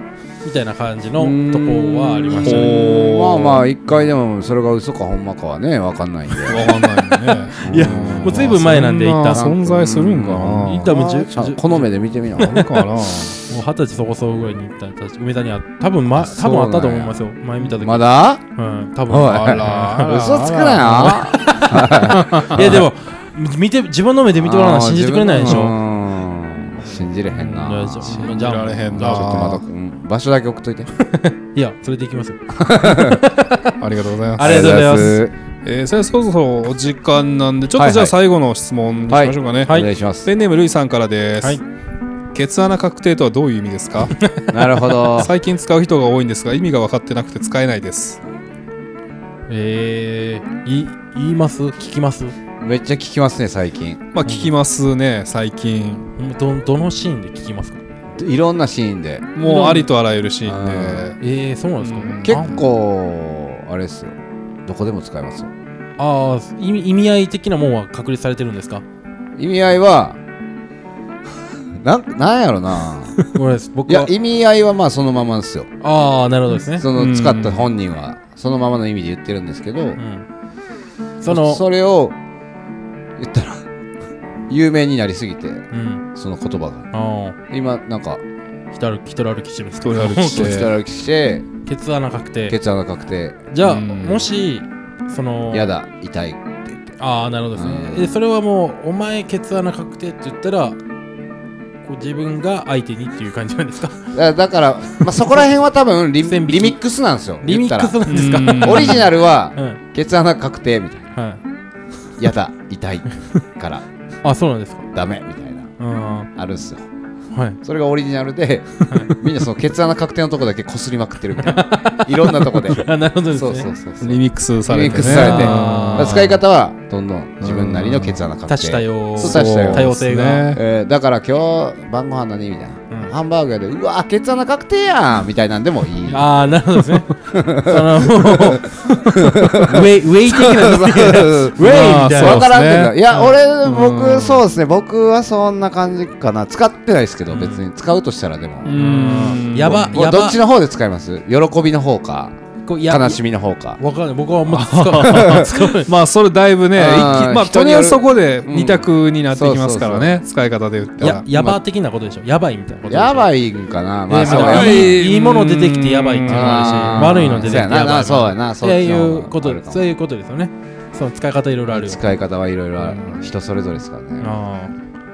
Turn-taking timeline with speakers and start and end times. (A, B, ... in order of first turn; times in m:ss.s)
0:00.4-0:02.8 A
0:01.2-0:06.6 B
0:02.4-0:03.7 C
0:06.4-0:10.9 C
0:07.6-0:09.5 A
0:07.6-0:08.6 B
0:09.3-0:12.8 B
0:10.6-0:11.8 A
0:12.4-0:13.4 C
0:13.5-0:20.3 A
0:16.1-0:18.4 B
0:19.1-0:22.9 B
0:19.3-0:21.3 C
0:20.9-0:25.8 A
0:22.1-0:22.8 C
0:24.4-0:28.2 B
0:27.3-0:29.6 C
0:27.5-0:29.6 A
0:28.9-0:30.9 B
0:31.0-0:33.6 A
0:32.5-0:33.2 B
0:33.8-0:34.9 C
0:34.4-0:35.2 A
0:34.4-0:35.3 B
0:35.6-0:41.6 C
0:37.8-0:38.1 B
0:39.1-0:40.3 B
0:42.3-0:44.2 C
0:44.2-0:44.5 A
0:44.5-0:45.4 B
0:45.0-0:48.2 C
0:49.5-0:52.4 A
0:52.6-0:54.1 B
0:54.1-0:56.1 C
0:54.2-0:54.5 A
0:56.2-0:57.8 A
0:58.1-0:59.3 B
0:59.4-1:01.2 C
0:59.4-0:59.9 A
1:00.4-1:01.1 B
1:01.2-1:02.6 A
1:01.8-1:02.6 C
1:02.2-1:05.5 B
1:06.0-1:08.8 A
1:09.4-1:10.2 B
1:11.8-1:13.3 B
1:13.3-1:14.1 A
1:13.9-1:15.7 B
1:15.8-1:16.9 A
1:16.8-1:20.0 B
1:16.9-1:17.7 C
1:20.0-1:20.3 A
1:21.2-1:21.6 A
1:21.3-1:22.2 B
1:23.2-1:23.6 B
1:24.5-1:26.9 B
1:25.7-1:26.0 A
1:26.9-1:27.4 A
1:27.5-1:28.2 B
1:28.7-1:30.6 A
1:29.8-1:30.7 C
1:30.2-1:31.5 B
1:31.6-1:32.6 A
1:32.5-1:33.4 B
1:33.5-1:35.7 A
1:33.6-1:34.3 C
1:35.5-1:36.9 B
1:37.0-1:40.8 A
1:37.6-1:38.2 B
1:41.8-1:44.2 A
1:44.1-1:51.1 B
1:46.2-1:46.8 A
1:47.4-1:49.8 A
1:48.1-1:49.1 C
1:51.1-1:51.4 A
1:52.2-1:53.8 B
1:54.2-1:54.9 A
1:54.9-1:55.7 B
1:55.8-1:56.3 A
1:56.4-1:56.9 B
1:57.3-1:57.6 A
1:57.6-2:09.9 B
1:58.9-1:59.2 A
2:01.4-2:03.7 A
2:04.0-2:06.3 C
2:04.9-2:06.4 A
2:07.4-2:08.2 C
2:08.5-2:10.6 A
2:09.2-2:10.6 C
2:10.5-2:16.3 B
2:16.1-2:22.5 A
2:17.2-2:18.6 B
2:19.1-2:28.8 B
2:21.6-2:23.1 C
2:23.6-2:24.4 C
2:27.3-2:27.6 A
2:28.6-2:30.0 C
2:28.7-2:30.4 A
2:29.6-2:33.8 B
2:32.7-2:33.2 A
2:33.8-2:35.9 A
2:34.5-2:41.2 C
2:35.0-2:35.5 B
2:36.8-2:40.2 B
2:41.0-2:41.6 B
2:41.0-2:43.3 A
2:42.9-2:45.0 B
2:44.1-2:52.1 A
2:44.2-2:47.5 C
2:46.2-2:49.8 B
2:51.7-2:54.4 B
2:52.8-2:53.3 C
2:54.2-2:54.7 A